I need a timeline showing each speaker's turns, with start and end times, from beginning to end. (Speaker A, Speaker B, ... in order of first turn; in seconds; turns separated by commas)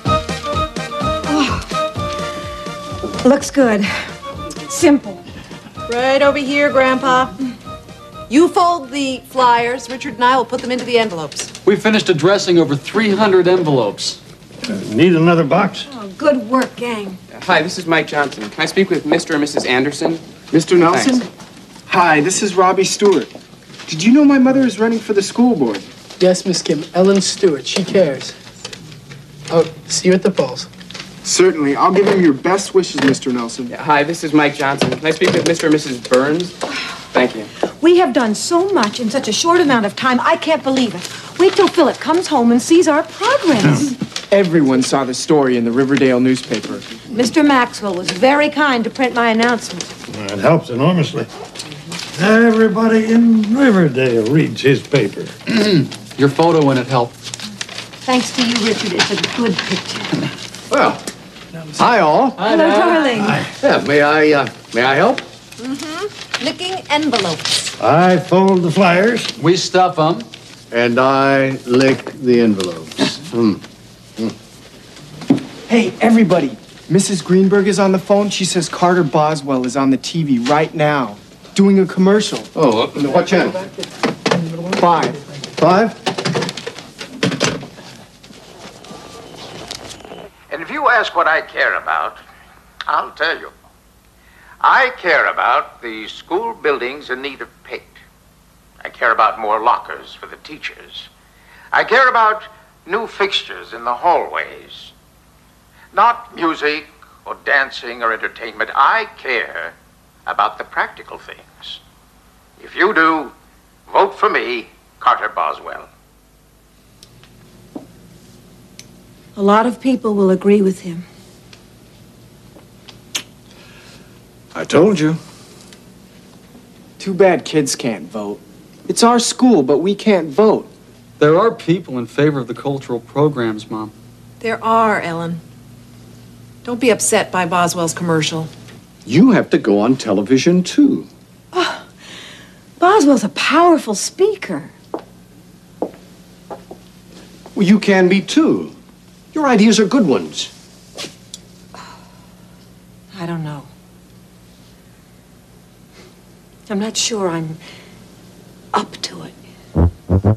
Speaker A: 1.3-1.6, Speaker A: 3.2-3.9, Speaker A: 4.7-5.2, Speaker B: 5.9-7.3, Speaker B: 8.3-11.5, Speaker C: 11.6-14.2, Speaker D: 14.7-15.8, Speaker A: 15.8-17.2, Speaker E: 17.3-20.3, Speaker F: 20.5-21.2, Speaker E: 20.9-21.2, Speaker F: 21.9-23.3, Speaker F: 23.9-25.9, Speaker G: 26.2-28.3, Speaker G: 29.5-30.7, Speaker F: 31.2-33.7, Speaker E: 33.7-36.6, Speaker E: 37.1-37.5, Speaker A: 37.8-44.0, Speaker F: 44.3-47.0, Speaker A: 47.1-49.9, Speaker D: 50.1-51.3, Speaker D: 52.1-55.3, Speaker C: 55.5-57.1, Speaker A: 58.0-60.1, Speaker H: 60.7-61.0, Speaker H: 61.8-62.5, Speaker A: 62.4-63.4, Speaker C: 62.4-63.1, Speaker D: 63.2-63.5, Speaker H: 63.6-65.2, Speaker B: 65.6-67.6, Speaker D: 67.8-69.3, Speaker C: 69.4-70.3, Speaker H: 70.7-73.6, Speaker F: 75.7-82.5, Speaker H: 82.5-83.6, Speaker F: 84.8-85.2, Speaker H: 85.6-85.9, Speaker I: 90.5-92.2, Speaker I: 92.8-93.5, Speaker I: 94.6-98.0, Speaker I: 98.8-101.1, Speaker I: 101.7-104.9, Speaker I: 105.9-109.7, Speaker I: 110.2-111.8, Speaker I: 112.6-113.3, Speaker I: 113.9-115.9, Speaker A: 119.3-121.0, Speaker H: 124.5-125.2, Speaker F: 127.0-130.7, Speaker C: 131.2-133.9, Speaker B: 134.4-135.4, Speaker B: 136.6-138.5, Speaker H: 139.0-141.1, Speaker A: 141.5-141.8, Speaker A: 142.8-144.7, Speaker H: 147.5-148.7, Speaker H: 149.3-150.5, Speaker A: 153.1-153.7, Speaker A: 156.7-157.6, Speaker A: 158.7-159.3